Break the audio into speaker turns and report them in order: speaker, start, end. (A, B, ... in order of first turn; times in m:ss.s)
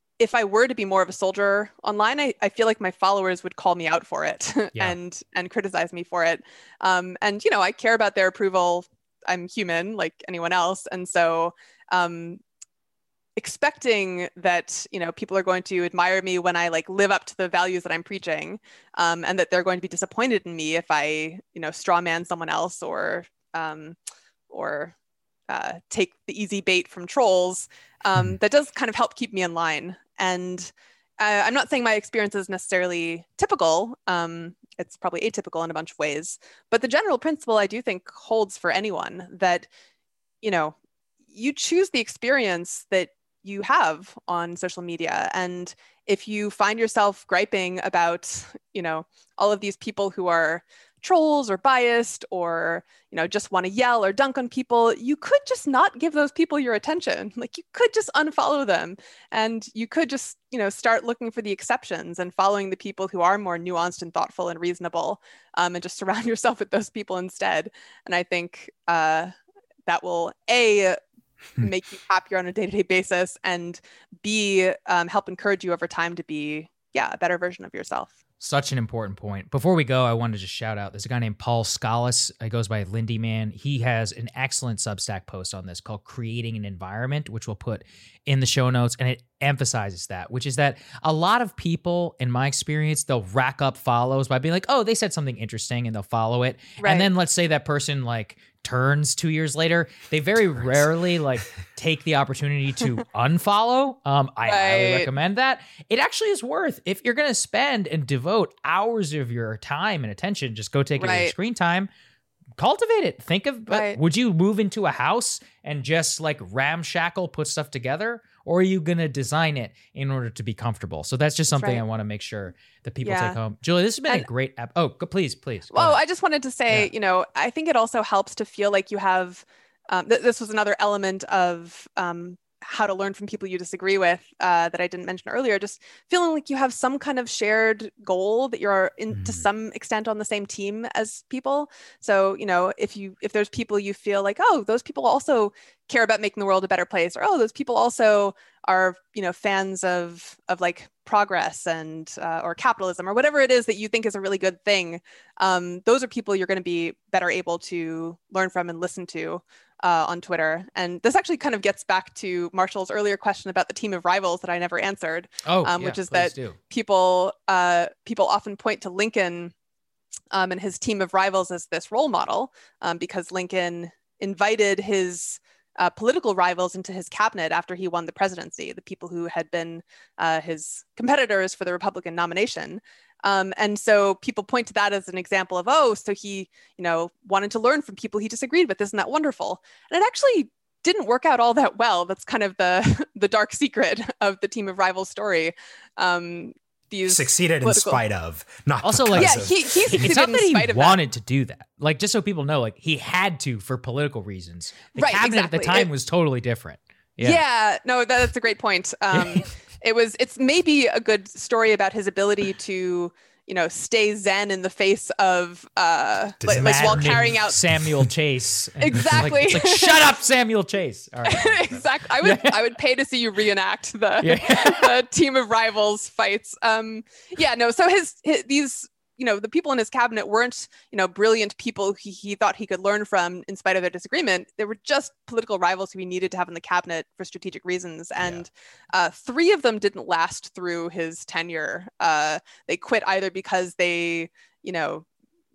0:00.2-0:12.4 A
0:13.4-0:24.0 A
0:24.5-0:24.9 A
0:25.5-0:39.7 A
0:40.4-0:40.8 A
0:41.3-1:09.3 A
1:09.9-1:11.0 A
1:11.6-1:18.2 A
1:18.4-1:51.9 B
1:36.8-1:37.1 A
1:44.5-1:45.1 A
1:51.0-1:51.4 A
1:52.6-2:06.0 B
1:53.7-1:54.0 A
2:01.5-2:01.8 A
2:03.0-2:03.4 A
2:05.7-2:49.5 A
2:19.1-2:19.4 C
2:45.4-2:46.6 B
2:50.3-3:18.0 A
3:17.0-3:19.8 C
3:18.8-3:27.4 B
3:19.2-3:21.0 A
3:25.0-3:25.9 A
3:27.2-3:37.6 A
3:29.1-3:29.5 B
3:36.4-3:37.4 C
3:36.5-3:42.6 B
3:38.8-3:40.2 A
3:41.2-4:05.1 A
3:44.2-3:44.9 B